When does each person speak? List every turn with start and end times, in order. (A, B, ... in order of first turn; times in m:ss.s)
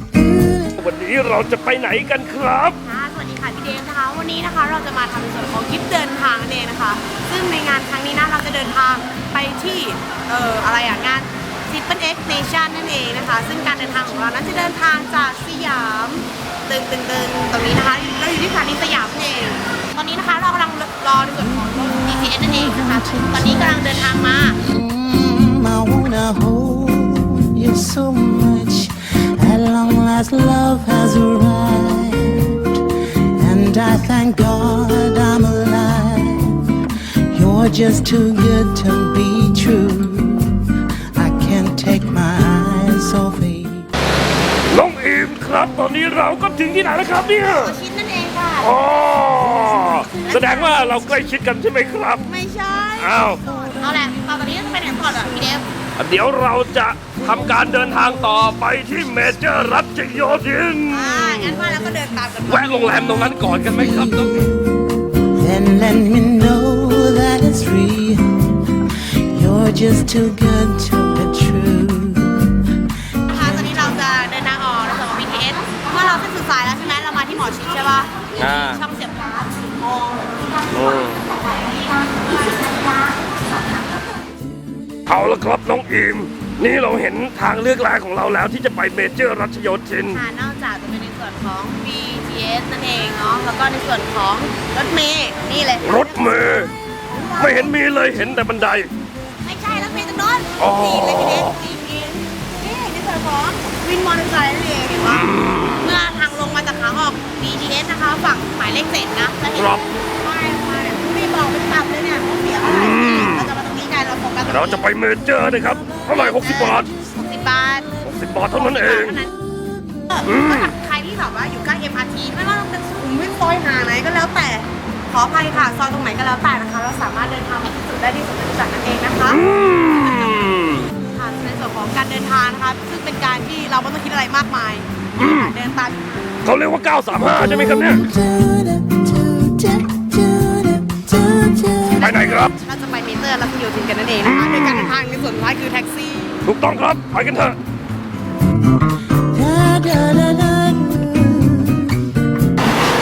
0:00.7-0:02.8 A
0:02.8-0:24.6 B
0:21.4-0:23.9 C
0:24.6-0:43.9 C
0:44.7-0:47.8 A
0:47.4-0:48.7 B
0:48.6-0:52.2 A
0:49.8-0:51.1 B
0:52.2-0:55.7 B
0:53.0-0:53.4 A
0:56.0-1:01.7 A
1:00.9-1:03.1 B
1:02.5-1:04.4 A
1:03.6-1:14.0 C
1:13.3-1:24.1 B
1:18.4-1:18.8 A
1:20.7-1:21.2 A
1:25.1-1:30.2 A
1:30.1-1:37.7 B
1:35.8-1:36.7 A
1:37.4-1:38.9 A
1:39.4-1:54.8 B
1:40.6-1:41.6 A
1:45.0-1:45.9 A
1:49.6-1:49.8 A
1:52.6-1:53.5 A
1:54.5-1:56.9 A
1:56.1-1:58.0 B
1:58.0-1:59.2 A
1:58.5-1:59.3 B
1:59.6-2:00.0 C
2:00.1-2:16.4 B
2:00.2-2:00.7 A
2:09.2-2:10.9 A
2:15.2-2:15.5 A
2:16.4-2:18.0 A
2:17.3-2:22.1 C
2:22.0-2:26.4 B
2:22.0-2:22.5 A
2:24.2-2:24.9 A
2:26.4-2:27.6 A
2:29.2-2:32.2 C